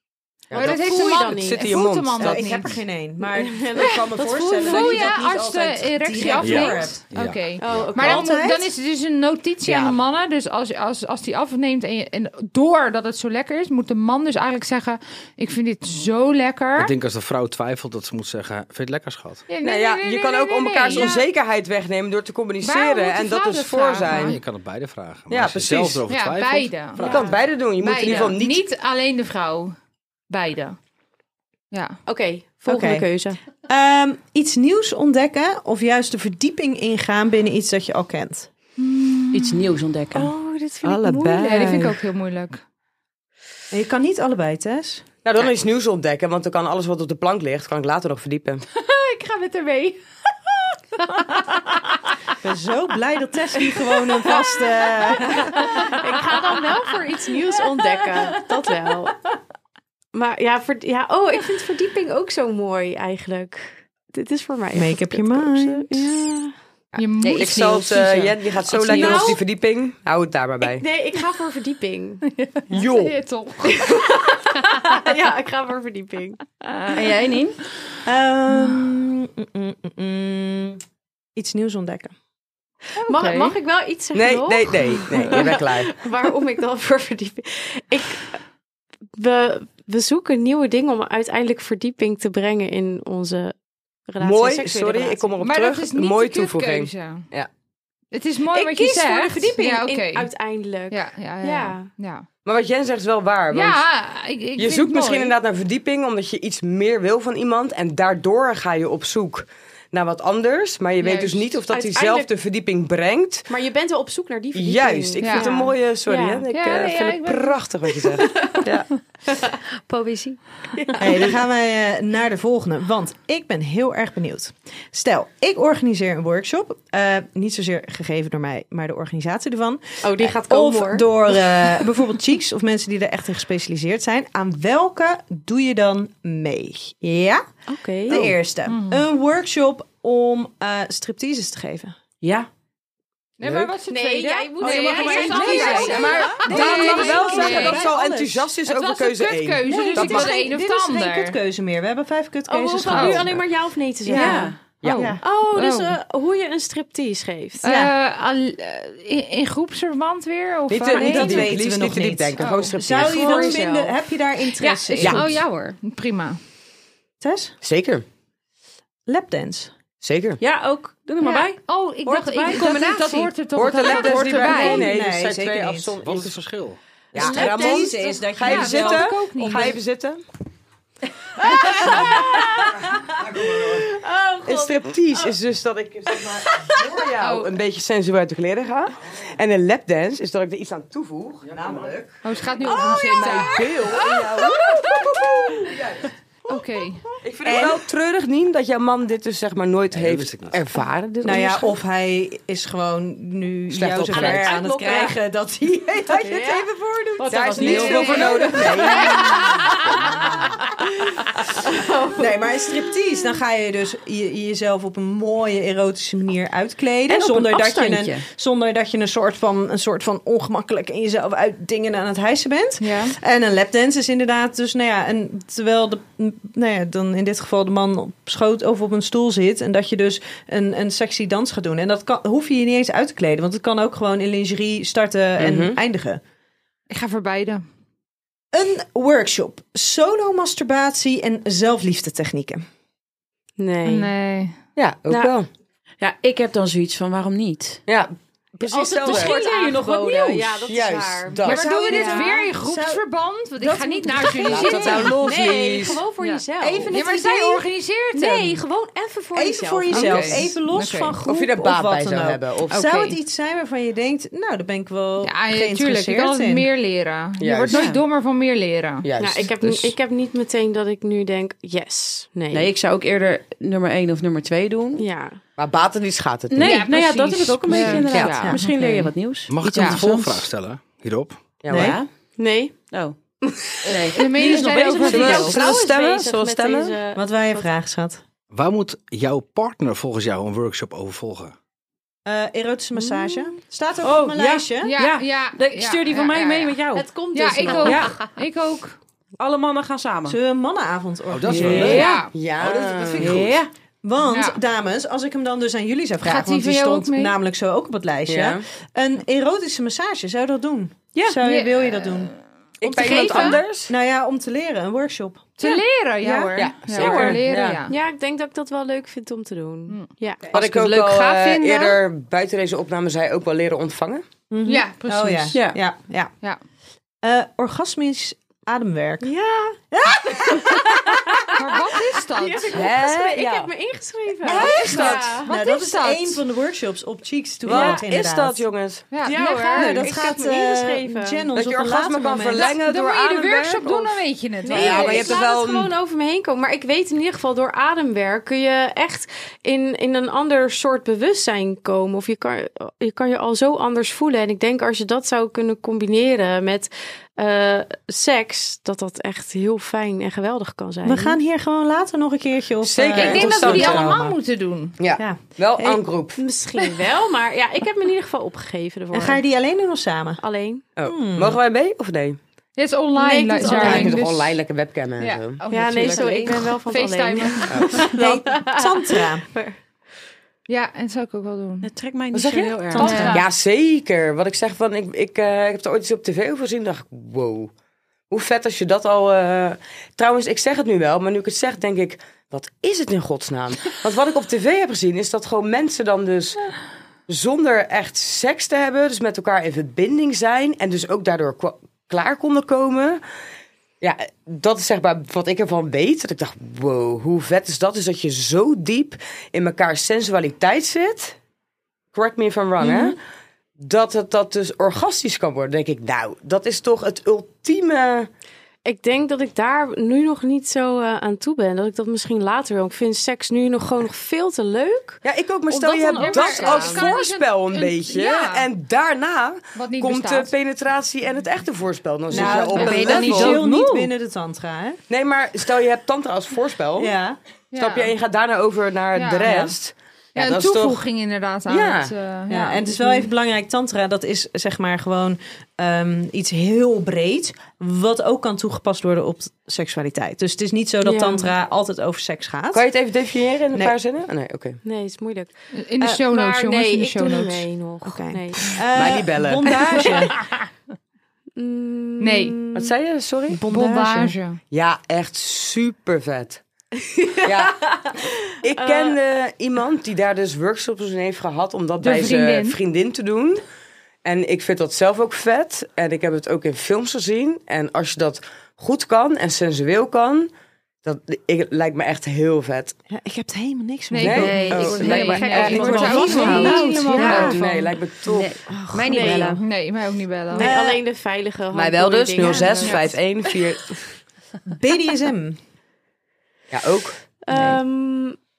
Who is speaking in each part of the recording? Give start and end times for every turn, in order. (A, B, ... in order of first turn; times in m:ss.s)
0:00.5-0:02.7 A
0:00.5-0:02.8 B
0:00.6-0:01.8 C
0:02.2-0:07.0 D
0:03.2-0:05.2 C
0:04.6-0:16.9 B
0:06.4-0:07.9 E
0:07.6-0:08.3 C
0:08.0-0:08.7 D
0:09.6-0:10.0 A
0:16.8-0:19.5 E
0:19.5-0:21.3 B
0:19.6-0:24.4 A
0:22.6-0:24.4 B
0:24.1-0:27.3 E
0:25.3-0:26.0 A
0:26.1-0:27.1 B
0:27.0-0:28.6 A
0:27.0-0:27.4 C
0:27.7-0:29.8 B
0:30.3-0:30.8 B
0:31.7-0:32.0 B
0:32.1-0:33.4 C
0:32.7-0:33.0 D
0:33.7-0:38.5 D
0:39.3-0:40.3 F
0:40.1-0:41.7 C
0:40.8-0:42.0 A
0:41.4-0:42.6 B
0:43.7-0:45.0 D
0:45.2-0:48.6 A
0:48.8-0:50.0 C
0:52.4-0:55.8 D
0:54.2-0:59.2 C
1:00.1-1:06.5 C
1:04.7-1:06.4 D
1:06.9-1:10.8 A
1:07.0-1:07.7 B
1:07.2-1:09.2 G
1:08.9-1:09.4 C
1:10.6-1:12.2 C
1:12.3-1:14.0 B
1:12.7-1:13.2 A
1:13.6-1:17.0 C
1:17.0-1:17.6 F
1:18.0-1:20.8 D
1:21.4-1:22.2 D
1:23.0-1:23.5 B
1:23.0-1:28.4 C
1:24.1-1:26.0 A
1:29.2-1:33.6 C
1:34.1-1:35.3 C
1:34.2-1:37.5 A
1:35.4-1:37.3 B
1:38.1-1:40.3 B
1:38.5-1:41.9 C
1:40.9-1:42.3 B
1:42.4-1:43.8 A
1:43.5-1:45.4 B
1:44.6-1:53.5 A
1:51.0-1:51.4 B
1:51.7-1:52.3 C
1:53.5-1:56.4 C
1:54.6-1:58.9 A
1:55.2-1:55.6 B
1:56.5-1:57.6 B
1:59.3-1:59.6 C
1:59.9-2:00.4 G
2:00.7-2:01.4 C
2:01.0-2:17.4 D
2:10.0-2:11.7 C
2:17.7-2:18.4 C
2:18.1-2:22.0 D
2:18.7-2:19.0 B
2:22.2-2:22.5 F
2:23.4-2:27.8 B
2:23.4-2:23.8 A
2:23.9-2:26.8 C
2:24.7-2:28.4 D
2:25.7-2:30.4 A
2:28.7-2:31.4 B
2:29.7-2:33.4 D
2:32.5-2:34.6 C
2:32.9-2:33.3 B
2:34.0-2:35.2 D
2:34.1-2:34.6 F
2:34.8-2:35.2 A
2:35.0-2:36.0 B
2:35.2-2:37.7 C
2:37.6-2:37.9 D
2:37.6-2:41.5 B
2:40.7-2:43.6 A
2:41.0-2:45.4 D
2:42.4-2:42.7 B
2:43.0-2:43.9 C
2:44.6-2:45.8 G
2:45.0-2:45.2 A
2:45.8-2:46.4 B
2:47.2-2:47.5 D
2:47.6-2:48.0 A
2:49.1-2:49.7 D
2:50.0-2:50.4 A
2:50.4-2:52.8 F
2:51.2-2:54.9 B
2:52.5-2:53.3 G
2:53.5-2:56.4 A
2:53.9-2:54.4 G
2:54.5-2:55.9 D
2:56.0-2:56.8 E
2:57.1-2:59.1 D
2:57.1-3:00.2 A
2:57.2-2:57.9 C
2:58.2-2:59.8 B
3:01.4-3:05.4 C
3:04.5-3:16.1 A
3:06.1-3:06.8 C
3:07.2-3:07.5 B
3:12.2-3:14.4 B
3:16.5-3:17.1 B
3:17.2-3:21.7 A
3:17.4-3:17.8 D
3:19.9-3:20.6 E
3:21.2-3:28.7 D
3:23.7-3:24.6 A
3:24.1-3:25.2 C
3:26.1-3:32.4 C
3:27.3-3:29.4 A
3:29.1-3:29.6 B
3:32.2-3:56.2 D
3:37.1-3:38.2 F
3:42.8-3:43.2 B
3:55.4-3:55.8 A
3:56.9-3:57.6 B
3:58.5-4:02.6 D
4:03.6-4:04.1 C
4:03.9-4:04.6 B
4:04.8-4:05.5 A
4:05.1-4:05.3 C
4:06.0-4:07.8 F
4:07.9-4:09.4 A
4:08.6-4:12.3 C
4:09.1-4:10.6 F
4:10.7-4:12.0 A
4:11.4-4:15.2 B
4:11.5-4:13.0 D
4:13.6-4:15.1 D
4:14.4-4:16.0 A
4:15.0-4:17.2 C
4:16.2-4:18.6 B
4:16.6-4:17.6 D
4:18.1-4:20.4 C
4:19.3-4:26.7 D
4:20.0-4:21.2 B
4:21.2-4:23.0 A
4:25.2-4:29.1 B
4:27.4-4:27.8 A
4:27.7-4:28.0 F
4:29.0-4:29.9 A
4:29.2-4:32.7 C
4:32.5-4:35.0 F
4:35.0-4:35.4 C
4:35.6-4:36.8 A
4:36.5-4:40.2 F
4:36.6-4:39.1 B
4:37.7-4:38.4 G
4:39.5-4:41.6 E
4:39.7-4:40.0 B
4:40.0-4:40.4 D
4:41.6-4:42.0 A
4:41.7-4:42.0 D
4:41.7-4:42.1 F
4:42.4-4:42.8 C
4:42.9-4:43.2 F
4:43.4-4:47.7 C
4:43.8-4:45.6 F
4:44.1-4:45.6 B
4:45.1-4:46.9 A
4:47.2-4:48.2 D
4:48.5-4:51.5 E
4:52.2-4:55.0 D
4:54.0-4:57.1 F
4:54.8-4:59.0 B
4:56.9-4:58.1 C
4:57.7-4:58.2 F
4:59.4-5:00.4 F
5:00.2-5:02.0 D
5:01.3-5:03.6 E
5:01.5-5:03.3 A
5:01.6-5:02.2 F
5:01.9-5:02.4 B
5:03.2-5:03.7 F
5:04.0-5:12.3 D
5:04.2-5:04.6 B
5:06.2-5:07.4 B
5:08.3-5:08.6 A
5:11.4-5:12.3 B
5:12.8-5:13.9 A
5:12.9-5:13.6 B
5:13.0-5:13.6 C
5:13.9-5:17.4 D
5:15.6-5:18.0 B
5:16.6-5:17.8 A
5:17.9-5:20.5 C
5:20.4-5:21.0 D
5:20.5-5:24.2 A
5:21.6-5:21.9 C
5:24.5-5:26.3 D
5:24.7-5:25.6 B
5:25.5-5:25.8 F
5:27.2-5:29.3 D
5:29.2-5:35.5 C
5:29.9-5:30.8 D
5:31.6-5:32.9 B
5:32.7-5:33.7 A
5:34.4-5:38.6 D
5:34.5-5:36.4 B
5:34.5-5:35.3 A
5:37.6-5:39.1 A
5:37.7-5:38.0 C
5:39.1-5:40.1 B
5:39.2-5:41.5 C
5:39.8-5:42.7 D
5:41.6-5:45.9 A
5:42.6-5:45.4 B
5:44.7-6:01.4 C
6:01.0-6:04.4 D
6:02.8-6:04.2 A
6:03.2-6:05.0 B
6:05.0-6:06.4 A
6:05.2-6:06.0 D
6:06.4-6:09.4 C
6:09.1-6:10.4 D
6:10.4-6:10.8 C
6:11.0-6:12.4 A
6:11.0-6:11.6 D
6:12.8-6:14.6 B
6:13.1-6:14.2 C
6:13.7-6:15.6 A
6:15.2-6:18.1 B
6:15.6-6:16.7 G
6:15.7-6:19.8 C
6:17.7-6:18.0 A
6:18.1-6:19.5 D
6:20.7-6:21.9 B
6:21.8-6:23.4 F
6:22.3-6:27.7 A
6:22.9-6:23.5 B
6:28.3-6:36.7 A
6:37.3-6:43.2 A
6:44.0-6:51.4 A
6:52.1-6:53.2 A
6:53.8-6:58.3 A
6:58.8-7:05.2 C
7:05.2-7:13.6 A
7:05.8-7:07.1 C
7:05.9-7:08.7 B
7:09.8-7:10.5 B
7:12.3-7:15.0 D
7:12.7-7:14.1 G
7:15.1-7:17.1 A
7:17.0-7:17.4 D
7:17.7-7:18.1 B
7:17.7-7:21.1 A
7:19.2-7:19.5 B
7:19.4-7:19.7 D
7:20.4-7:22.8 B
7:21.7-7:22.2 A
7:22.5-7:32.8 D
7:31.0-7:31.5 C
7:32.7-7:34.8 A
7:34.8-7:35.5 C
7:35.7-7:37.7 B
7:36.2-7:38.8 C
7:38.0-7:40.3 D
7:39.0-7:39.7 A
7:41.6-7:42.9 C
7:42.2-7:42.6 B
7:42.8-7:43.6 A
7:43.5-7:44.4 D
7:43.7-7:44.6 B
7:44.7-7:46.6 A
7:47.0-7:49.2 C
7:47.4-7:47.9 A
7:48.6-7:53.6 A
7:52.0-7:52.8 B
7:54.2-8:00.5 A
8:01.0-8:03.0 A
8:03.1-8:08.0 D
8:04.1-8:07.0 B
8:04.2-8:06.4 A
8:04.4-8:07.6 G
8:05.6-8:07.6 C
8:07.2-8:08.6 A
8:08.2-8:09.6 G
8:08.7-8:09.6 D
8:09.1-8:09.6 C
8:09.6-8:10.7 B
8:10.5-8:13.2 C
8:10.6-8:11.0 D
8:11.7-8:14.1 A
8:12.6-8:13.2 B
8:14.7-8:15.6 D
8:16.7-8:17.2 A
8:17.4-8:18.4 C
8:17.5-8:17.8 F